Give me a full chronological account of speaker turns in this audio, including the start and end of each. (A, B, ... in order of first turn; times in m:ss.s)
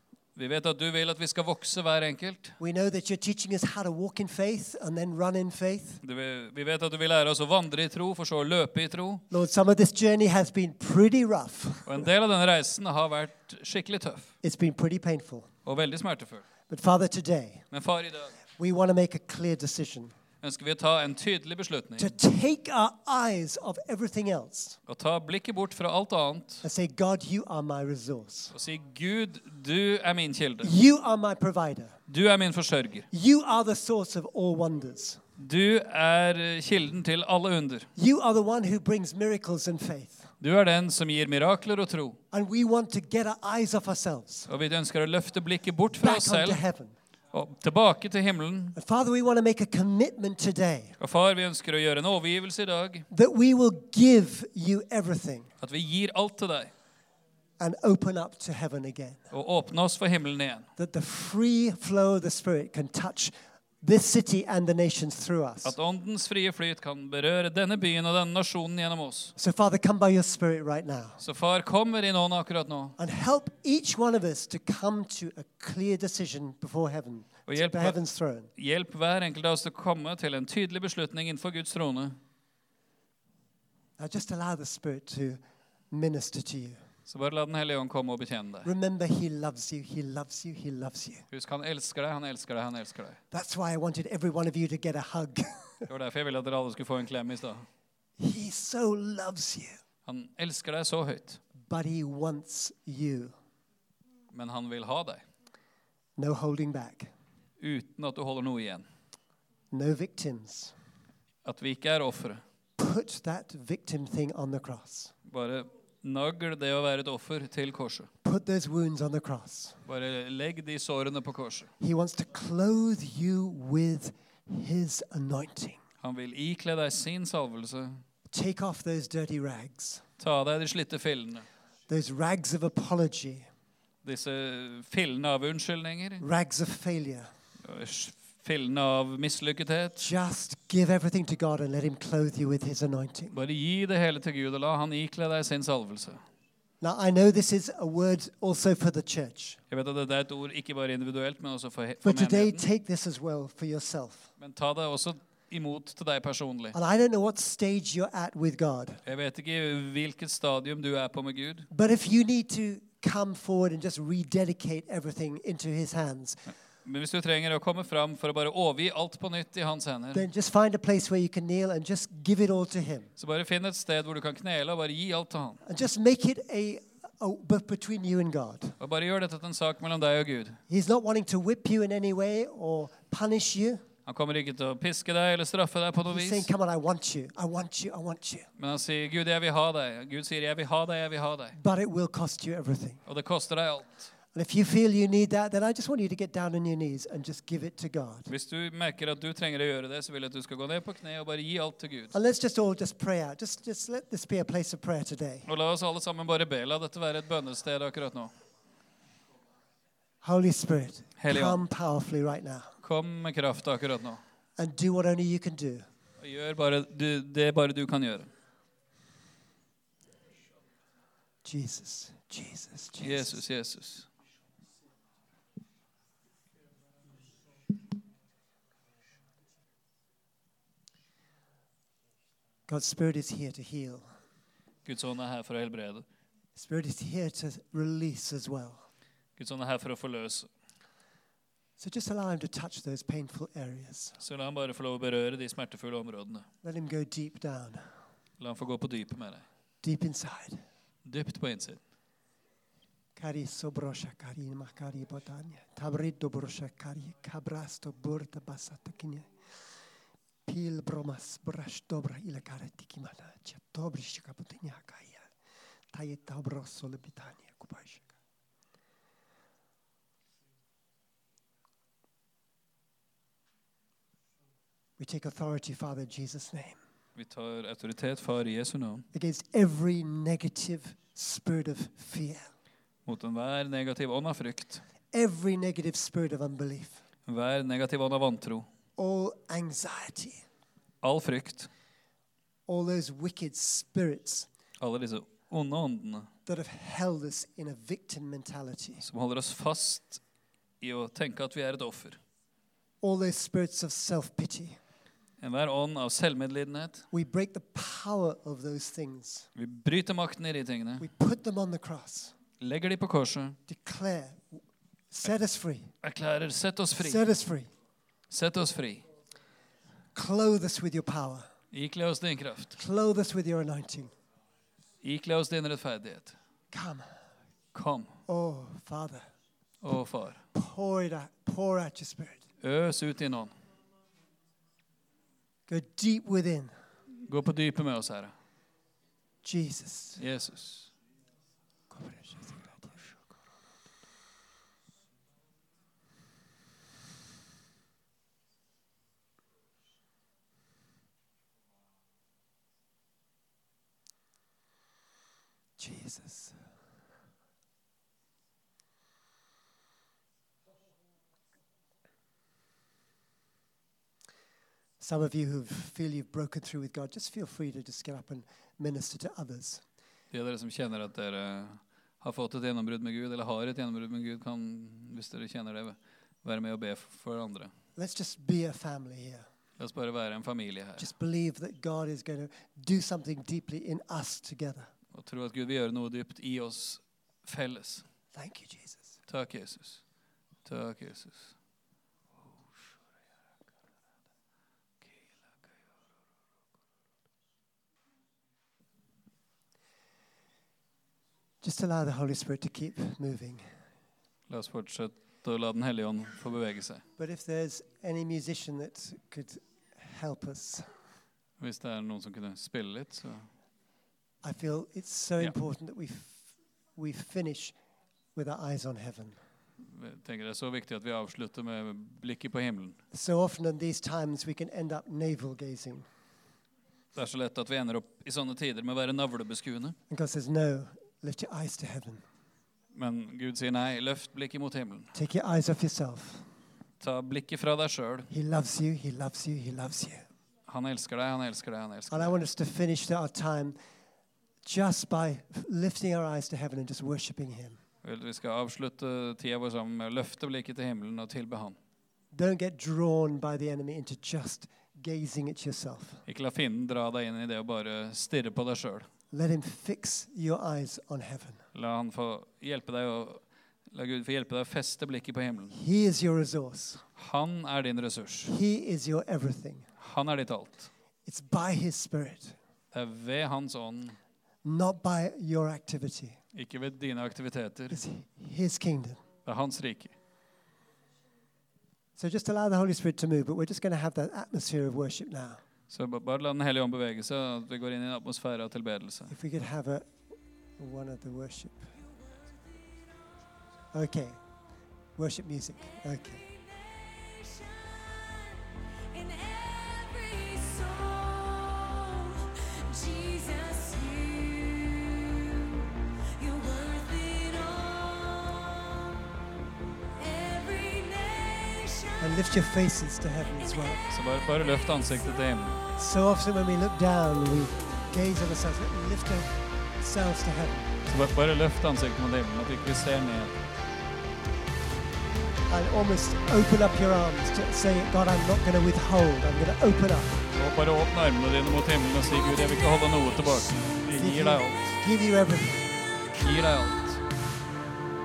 0:00.4-0:02.6 A
0:02.6-0:06.0 B
0:06.0-0:09.2 A
0:09.3-0:12.0 B
0:11.8-0:14.3 A
0:14.4-0:15.5 B
0:15.6-0:16.4 A
0:16.7-0:17.6 B
0:17.7-0:18.3 A
0:18.6-0:20.1 B
0:20.4-0:22.2 A
0:22.0-0:24.8 B
0:24.9-0:26.6 A
0:26.6-0:28.5 B
0:28.5-0:30.7 A
0:30.6-0:32.0 B
0:32.1-0:33.1 A
0:33.1-0:35.2 B
0:35.4-0:37.9 A
0:38.0-0:40.3 B
0:40.4-0:42.2 A
0:42.3-0:44.5 B
0:44.5-0:46.6 A
0:46.0-0:47.0 B
0:47.3-0:48.8 A
0:48.8-0:51.0 B
0:51.0-0:53.1 A
0:53.1-0:55.5 B
0:55.6-0:56.7 A
0:57.6-0:59.2 B
0:59.3-1:00.7 A
1:00.8-1:05.7 B
1:05.6-1:09.3 A
1:09.4-1:11.2 B
1:11.2-1:13.0 A
1:13.0-1:18.5 B
1:17.5-1:18.0 A
1:18.6-1:22.2 A
1:24.0-1:25.4 B
1:25.9-1:26.8 B
1:27.1-1:28.7 A
1:28.6-1:31.2 B
1:31.3-1:33.2 A
1:33.3-1:35.9 B
1:35.9-1:37.6 A
1:38.2-1:39.8 B
1:40.0-1:41.4 A
1:41.6-1:43.3 B
1:44.3-1:45.2 A
1:46.2-1:47.1 B
1:47.6-1:48.8 A
1:49.7-1:50.7 B
1:51.4-1:52.4 A
1:52.8-1:55.1 B
1:55.2-1:58.1 A
1:58.2-1:59.8 B
1:59.8-2:01.7 A
2:01.8-2:05.8 B
2:06.0-2:08.0 A
2:08.3-2:10.0 B
2:10.2-2:11.4 A
2:11.9-2:13.5 B
2:14.0-2:16.2 A
2:16.2-2:17.3 B
2:17.6-2:20.1 A
2:20.0-2:23.4 B
2:23.3-2:26.2 A
2:26.8-2:29.6 B
2:29.7-2:32.6 A
2:32.0-2:34.3 B
2:34.4-2:36.8 A
2:36.7-2:39.0 B
2:39.0-2:41.7 A
2:41.7-2:46.4 B
2:46.8-2:50.3 A
2:50.1-2:53.1 B
2:53.2-2:55.6 A
2:55.6-2:58.8 B
2:58.8-3:00.6 A
3:00.7-3:03.8 B
3:04.0-3:06.5 A
3:06.1-3:08.5 B
3:08.6-3:11.6 A
3:11.5-3:13.0 B
3:13.1-3:13.9 A
3:14.3-3:18.3 B
3:18.3-3:22.1 A
3:22.1-3:25.5 B
3:25.4-3:28.3 A
3:30.2-3:32.7 B
3:31.2-3:31.6 A
3:32.8-3:34.2 A
3:34.6-3:35.8 B
3:36.2-3:38.3 A
3:41.4-3:43.4 B
3:43.0-3:44.1 A
3:52.7-3:54.1 B
3:54.8-3:56.0 A
3:56.5-3:58.8 B
3:59.4-4:00.5 A
4:01.8-4:04.2 B
4:04.2-4:06.5 A
4:06.6-4:07.9 B
4:08.4-4:09.4 A
4:09.8-4:10.6 B
4:11.0-4:11.8 A
4:13.2-4:19.3 B
4:20.4-4:25.3 B
4:25.9-4:28.1 B
4:35.0-4:36.8 B
4:37.2-4:39.0 A
4:39.1-4:42.5 B
4:43.0-4:44.8 A
4:45.1-4:47.0 B
4:47.2-4:48.7 A
4:49.0-4:50.4 B
4:51.0-4:51.7 A
4:52.7-4:54.5 B
4:54.8-4:56.3 A
4:56.4-4:59.1 B
4:59.0-5:00.2 A
5:00.8-5:02.2 A
5:03.0-5:04.8 B
5:05.4-5:07.1 A
5:07.1-5:09.5 B
5:09.6-5:11.1 A
5:11.0-5:12.4 B
5:12.6-5:13.6 A
5:13.7-5:15.9 B
5:16.0-5:17.2 A
5:17.0-5:17.7 B
5:18.3-5:19.0 A
5:20.1-5:21.5 B
5:21.7-5:22.7 A
5:22.8-5:24.1 B
5:25.0-5:26.3 A
5:26.7-5:27.1 B
5:27.7-5:28.1 A
5:28.3-5:29.3 B
5:29.8-5:30.4 A
5:30.5-5:32.4 B
5:32.6-5:33.5 A
5:35.7-5:36.7 B
5:37.2-5:38.3 A
5:39.4-5:40.2 B
5:40.2-5:40.9 A
5:41.9-5:43.1 B
5:55.8-5:56.6 B
6:05.0-6:09.8 B
6:10.3-6:17.7 A
6:18.0-6:19.4 B
6:19.8-6:21.1 A
6:21.0-6:24.9 B
6:25.1-6:28.0 A
6:28.3-6:29.2 B
6:29.3-6:30.0 A
6:30.6-6:31.5 A
6:41.6-6:43.7 B
6:44.5-6:47.0 A
6:47.2-6:50.9 B
6:51.6-6:53.5 A
6:54.4-6:57.7 B
6:58.3-6:59.4 B
6:59.8-7:03.0 A
7:03.1-7:06.0 B
7:07.1-7:09.9 A
7:10.1-7:12.2 B
7:12.9-7:15.1 A
7:15.1-7:16.4 B
7:17.0-7:18.3 A
7:18.3-7:20.2 B
7:20.7-7:22.3 A
7:22.1-7:23.8 B
7:24.6-7:27.8 B
7:28.0-7:31.8 A
7:32.3-7:36.2 B
7:36.3-7:39.1 A
7:39.3-7:41.6 B
7:41.7-7:45.8 A
7:45.7-7:47.0 B
7:47.2-7:48.5 A
7:48.5-7:49.9 B
7:50.0-7:50.9 A
7:51.2-7:52.6 B
7:52.9-7:54.2 A
7:54.6-7:56.4 B
7:56.5-7:58.0 A
7:57.9-7:59.2 B
7:59.4-8:00.1 A
8:02.2-8:05.6 B
8:05.9-8:09.3 A
8:09.3-8:10.1 B
8:10.8-8:11.9 B
8:13.9-8:14.4 B
8:15.2-8:16.4 B
8:16.2-8:25.8 C
8:26.3-8:29.2 C
8:30.2-8:32.3 C
8:32.2-8:34.0 B
8:34.1-8:35.8 A
8:36.0-8:40.9 B
8:41.1-8:43.6 A
8:45.7-8:50.4 B
8:50.5-8:54.8 A
8:52.4-8:54.0 C
8:54.1-8:55.9 B
8:55.9-8:57.2 C
8:56.4-8:57.2 A